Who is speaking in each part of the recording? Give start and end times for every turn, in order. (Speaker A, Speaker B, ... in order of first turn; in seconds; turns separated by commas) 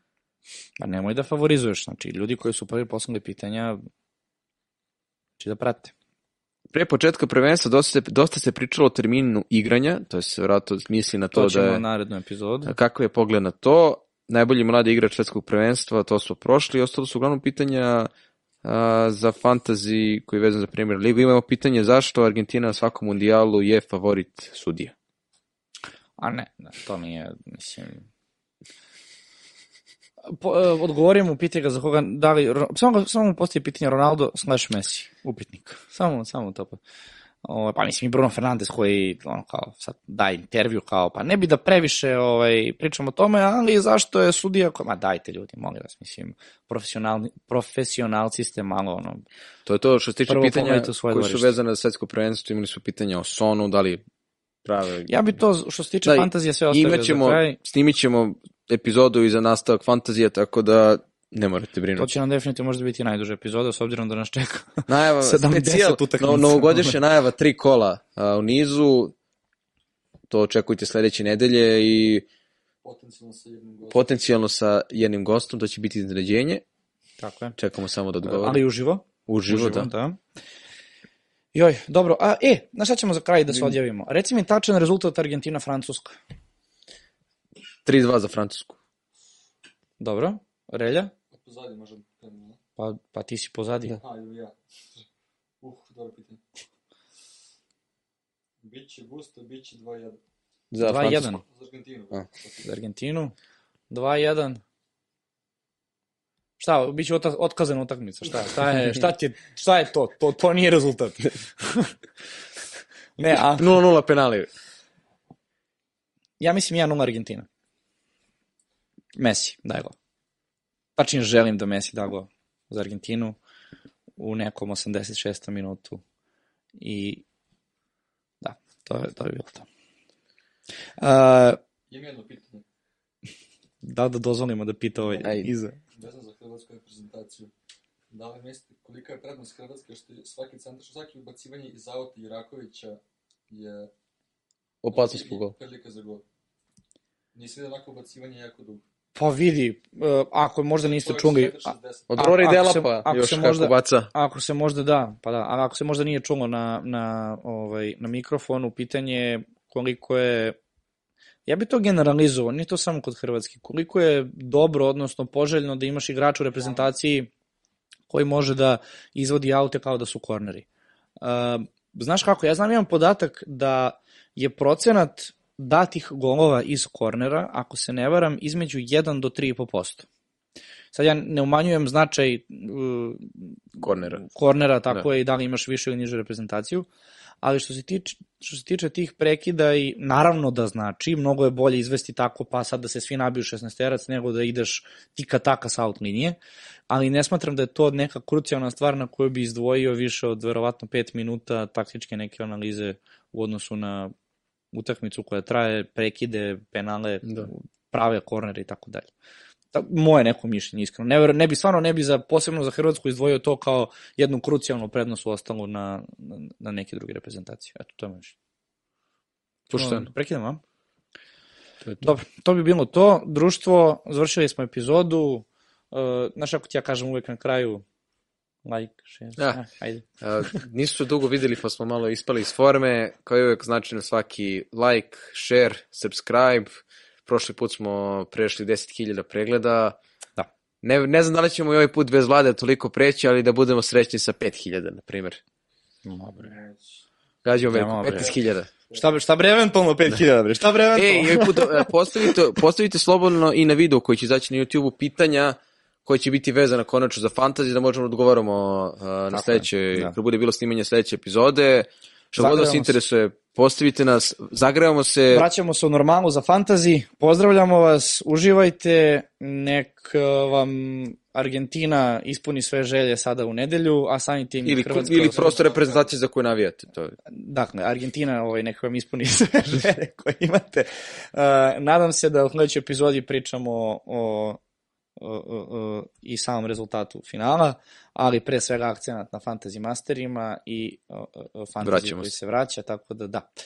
Speaker A: 0.8-3.8, Speaker A: 5.4-5.9, Speaker B: 6.7-11.8, Speaker A: 11.3-12.7, Speaker B: 12.7-18.1, Speaker B: 18.6-24.9, Speaker A: 26.2-28.1, Speaker A: 30.3-36.8, Speaker A: 37.5-49.2, Speaker B: 49.7-54.0, Speaker A: 50.3-51.5, Speaker B: 54.6-55.1, Speaker A: 55.1-57.6, Speaker B: 56.0-62.1, Speaker A: 62.0-67.0, Speaker B: 64.9-69.1, Speaker B: 70.3-72.2, Speaker C: 72.8-74.1, Speaker B: 73.9-76.6, Speaker A: 77.2-77.5, Speaker B: 77.6-78.6, Speaker A: 78.2-80.2, Speaker B: 79.3-79.9, Speaker A: 81.5-86.2, Speaker B: 87.8-88.8, Speaker A: 90.0-91.1, Speaker C: 91.3-92.6, Speaker A: 92.8-94.0, Speaker C: 94.0-94.5, Speaker C: 95.6-96.4, Speaker C: 98.6-100.2, Speaker B: 100.7-101.3, Speaker A: 100.8-101.4, Speaker C: 101.2-102.7, Speaker A: 102.6-103.3, Speaker A: 103.9-104.6, Speaker A: 106.6-111.9, Speaker A: 113.2-113.8, Speaker B: 113.6-114.5, Speaker A: 116.4-117.5, Speaker A: 119.2-120.0, Speaker A: 121.0-123.4, Speaker A: 124.2-126.0, Speaker A: 126.8-127.2, Speaker A: 128.4-129.7, Speaker A: 131.0-131.6, Speaker C: 131.9-132.6, Speaker A: 133.8-135.8, Speaker B: 135.2-135.5, Speaker C: 135.9-137.5, Speaker C: 138.1-143.9, Speaker B: 144.8-145.5, Speaker C: 144.9-146.2, Speaker C: 147.3-148.8, Speaker A: 149.2-160.6, Speaker C: 150.8-152.3, Speaker B: 152.1-154.1, Speaker A: 161.5-167.3, Speaker A: 168.1-170.7, Speaker A: 171.2-180.1, Speaker A: 180.9-186.9, Speaker B: 183.8-184.2, Speaker A: 187.4-196.4, Speaker A: 196.9-204.1, Speaker A: 204.7-209.1, Speaker A: 209.7-218.3, Speaker B: 219.7-220.1, Speaker A: 219.7-220.6, Speaker A: 222.0-227.8, Speaker A: 228.7-230.6, Speaker B: 230.2-240.0, Speaker B: 240.8-245.4, Speaker A: 246.1-246.6, Speaker C: 246.4-246.9, Speaker B: 247.4-248.7, Speaker A: 247.7-248.3, Speaker C: 248.1-248.3, Speaker A: 248.9-251.9, Speaker B: 250.9-265.4, Speaker A: 259.3-260.1, Speaker A: 262.4-262.9, Speaker A: 265.3-275.6, Speaker B: 274.6-277.2, Speaker C: 275.1-276.1, Speaker A: 277.3-284.6, Speaker A: 285.2-293.5, Speaker B: 291.8-292.3